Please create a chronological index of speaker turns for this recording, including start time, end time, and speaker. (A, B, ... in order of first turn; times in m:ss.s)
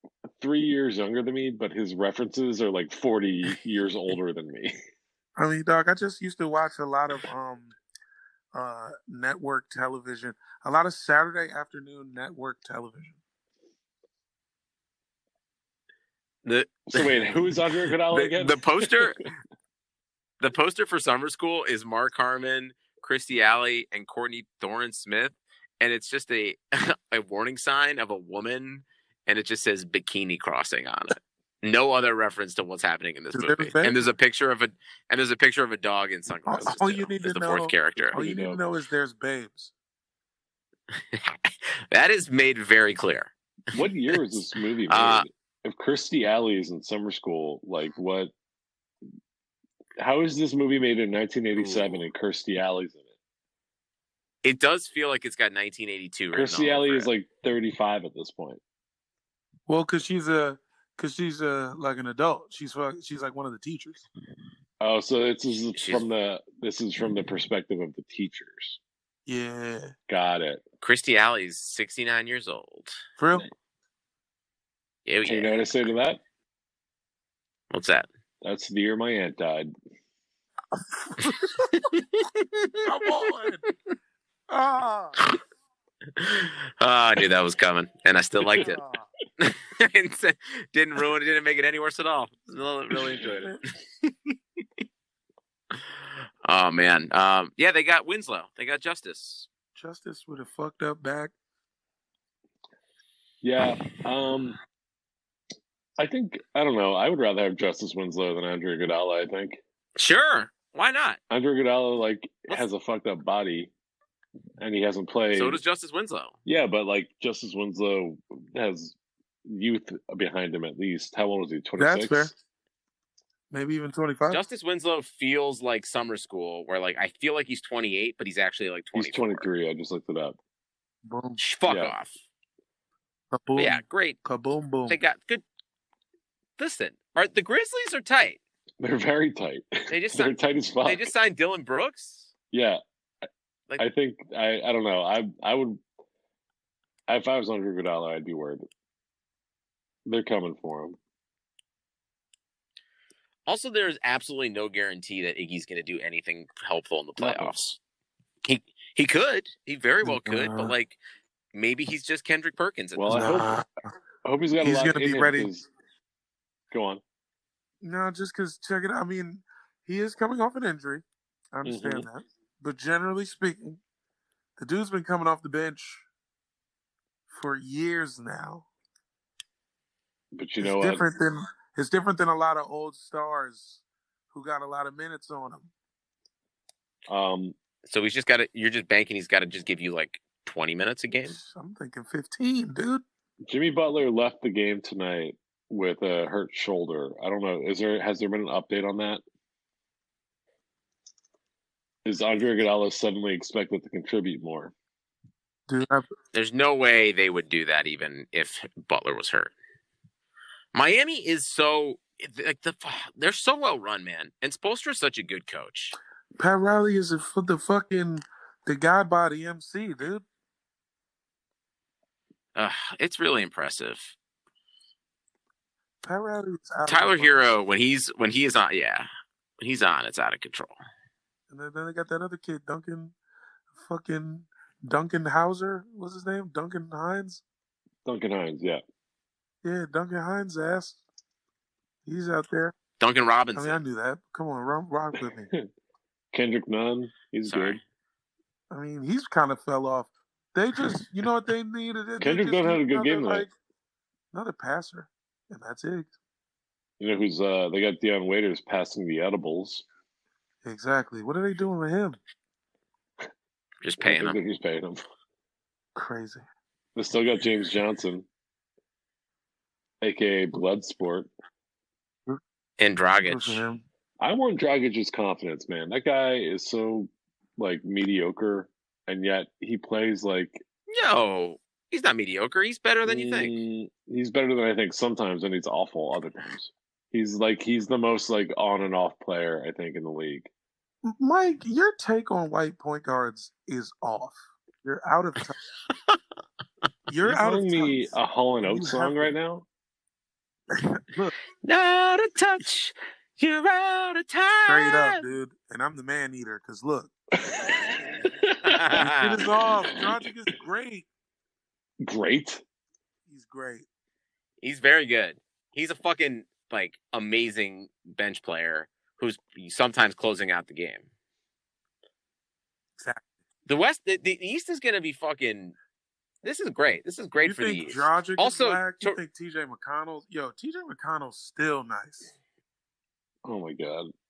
0:00.4-0:04.7 A
0:05.4-0:07.8 B
0:08.5-0:13.2 B
0:16.4-0:17.2 C
0:16.9-0:19.1 A
0:17.7-0:19.2 C
0:20.4-0:38.2 C
0:33.3-0:34.0 B
0:36.3-0:39.7 B
0:38.1-0:38.6 A
0:40.9-0:44.2 C
0:43.7-0:48.3 A
0:44.9-0:45.2 C
0:50.0-0:53.1 A
0:51.6-0:52.0 C
0:54.4-0:57.1 C
0:56.3-0:58.6 A
0:59.7-1:04.0 B
1:04.8-1:08.8 A
1:05.7-1:06.0 C
1:09.2-1:09.9 B
1:10.1-1:10.6 A
1:10.8-1:13.0 C
1:13.2-1:13.4 B
1:15.0-1:15.7 C
1:15.2-1:16.2 A
1:17.7-1:18.1 C
1:18.4-1:19.7 A
1:21.0-1:21.6 B
1:21.2-1:23.1 C
1:22.8-1:23.7 B
1:24.5-1:25.2 B
1:26.2-1:28.8 C
1:28.6-1:29.1 B
1:29.4-1:33.5 C
1:33.1-1:33.6 B
1:36.4-1:39.5 C
1:39.8-1:41.3 B
1:43.4-1:44.6 A
1:46.0-1:49.6 A
1:50.0-1:51.2 C
1:51.3-1:53.7 A
1:54.6-1:55.6 A
1:55.3-1:56.4 C
1:56.4-2:02.3 A
2:01.8-2:02.3 B
2:03.5-2:04.4 B
2:04.3-2:09.5 C
2:08.9-2:10.4 A
2:11.0-2:11.4 B
2:11.4-2:12.2 C
2:11.6-2:11.9 A
2:13.3-2:15.0 B
2:13.6-2:14.2 C
2:14.9-2:15.4 C
2:16.6-2:18.4 C
2:18.8-2:21.1 A
2:19.9-2:22.3 C
2:22.5-2:22.8 A
2:23.8-2:25.8 A
2:27.1-2:28.6 A
2:30.0-2:31.0 A
2:33.5-2:37.8 C
2:37.2-2:37.5 A
2:38.4-2:41.0 C
2:40.0-2:40.7 B
2:41.5-2:43.3 C
2:43.0-2:43.5 A
2:43.1-2:43.7 B
2:44.2-2:45.7 A
2:44.6-2:45.5 B
2:46.7-2:47.0 A
2:47.8-2:53.8 B
2:51.6-2:52.1 A
2:54.6-2:56.0 B
2:57.3-2:58.7 B
3:00.3-3:01.0 A
3:00.6-3:05.7 B
3:07.1-3:07.5 A
3:07.9-3:11.4 C
3:11.3-3:13.0 B
3:13.5-3:19.2 A
3:22.0-3:24.7 A
3:25.7-3:26.1 B
3:26.3-3:29.5 C
3:30.7-3:36.0 C
3:36.4-3:40.2 B
3:42.5-3:44.1 C
3:46.0-3:47.5 B
3:46.8-3:49.1 C
3:49.6-3:50.8 C
3:51.5-3:53.1 B
3:53.7-3:57.4 B
3:58.0-3:58.8 A
3:59.6-4:01.0 B
4:02.0-4:02.7 B
4:03.0-4:03.8 C
4:03.6-4:05.5 B
4:06.3-4:07.8 A
4:07.4-4:07.8 C
4:08.7-4:13.5 B
4:12.2-4:13.4 A
4:14.3-4:16.1 B
4:17.0-4:19.8 A
4:20.6-4:22.2 B
4:23.8-4:24.4 C
4:24.0-4:25.0 A
4:26.0-4:26.4 B
4:27.0-4:28.3 A
4:30.0-4:31.3 A
4:32.8-4:33.6 C
4:33.2-4:33.8 B
4:34.2-4:40.6 A
4:40.9-4:43.5 C
4:43.0-4:50.5 A
4:51.0-4:55.6 B
4:57.1-4:59.3 B
4:57.2-4:59.6 A
5:00.8-5:01.3 B
5:01.6-5:05.2 C
5:04.6-5:07.1 B
5:07.4-5:10.1 A
5:08.7-5:09.4 C
5:09.0-5:11.1 B
5:12.0-5:12.6 A
5:13.3-5:13.9 B
5:14.6-5:21.0 C
5:23.0-5:23.3 B
5:23.7-5:25.8 C
5:26.4-5:29.2 C
5:27.4-5:32.3 B
5:33.4-5:34.1 A